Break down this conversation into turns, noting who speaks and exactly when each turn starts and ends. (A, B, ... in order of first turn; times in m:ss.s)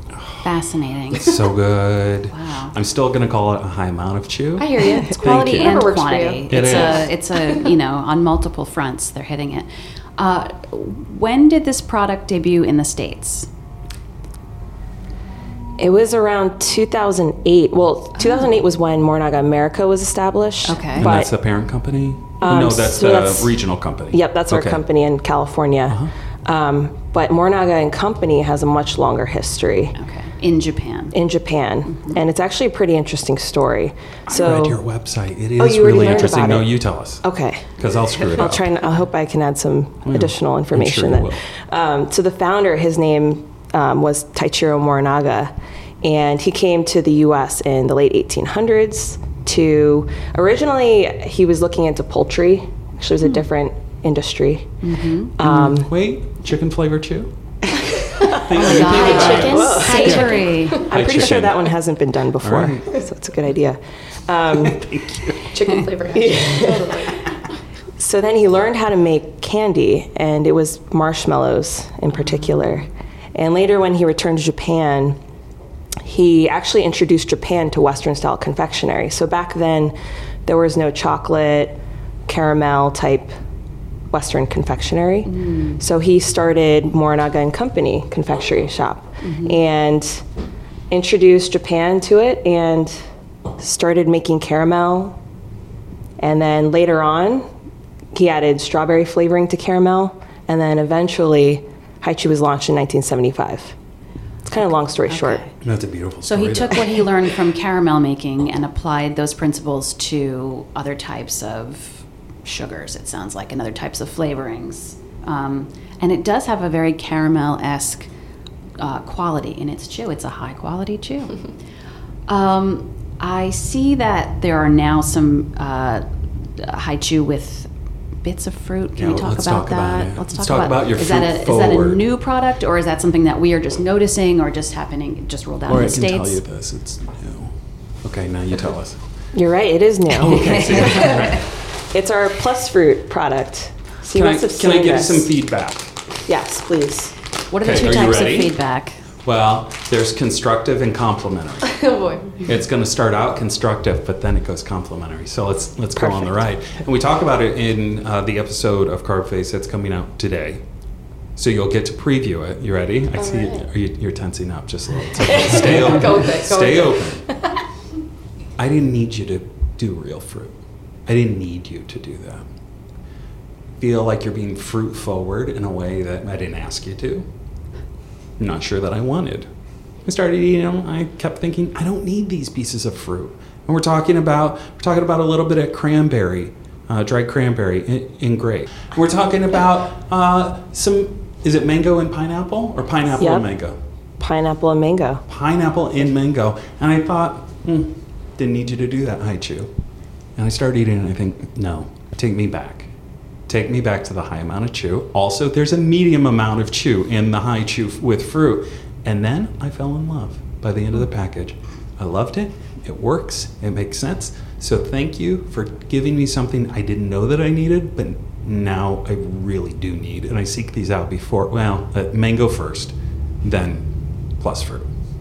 0:00.2-0:00.4 A
0:00.4-0:01.4 B
0:01.1-0:05.8 A
0:02.3-0:02.8 B
0:04.6-0:07.7 C
0:05.2-0:13.5 B
0:06.5-0:07.1 A
0:15.8-0:21.3 D
0:20.6-0:21.1 B
0:21.0-0:24.8 A
0:22.4-0:23.6 D
0:24.1-0:30.0 D
0:30.0-0:31.2 B
0:31.1-0:34.8 D
0:31.9-0:32.2 B
0:34.3-0:37.2 A
0:35.6-0:55.9 D
0:37.8-0:38.7 A
0:40.0-0:41.4 A
0:54.8-0:55.3 B
0:55.4-0:57.3 A
0:58.3-1:04.9 D
0:58.3-1:01.8 A
0:58.4-1:00.9 C
0:58.5-1:00.9 B
1:02.4-1:03.0 A
1:04.6-1:05.6 A
1:05.5-1:07.2 C
1:06.1-1:07.0 D
1:08.0-1:15.2 D
1:12.3-1:12.7 B
1:16.0-1:23.3 D
1:24.1-1:30.2 D
1:25.3-1:25.8 B
1:29.2-1:29.6 B
1:30.9-1:33.0 D
1:33.6-1:35.2 D
1:36.2-1:37.5 D
1:38.1-1:43.8 D
1:44.4-1:45.4 D
1:45.1-1:45.5 B
1:45.6-1:47.1 A
1:46.3-1:58.1 B
1:58.8-2:01.4 B
2:02.3-2:06.1 B
2:06.6-2:07.7 B
2:08.2-2:16.4 B
2:09.0-2:12.0 A
2:15.7-2:19.0 A
2:19.3-2:21.3 D
2:20.1-2:21.5 A
2:20.3-2:21.4 B
2:21.9-2:25.3 D
2:24.1-2:26.0 A
2:26.3-2:27.1 D
2:27.5-2:29.0 B
2:27.6-2:28.6 A
2:29.2-2:40.6 A
2:31.8-2:32.4 C
2:41.4-2:47.3 A
2:43.2-2:43.7 C
2:45.2-2:47.5 C
2:48.6-2:50.6 A
2:51.1-2:52.5 A
2:53.8-2:57.2 A
2:58.4-2:59.5 A
3:00.0-3:13.8 A
3:13.2-3:13.5 D
3:14.2-3:15.2 D
3:15.3-3:19.7 A
3:20.4-3:22.9 A
3:23.5-3:44.9 A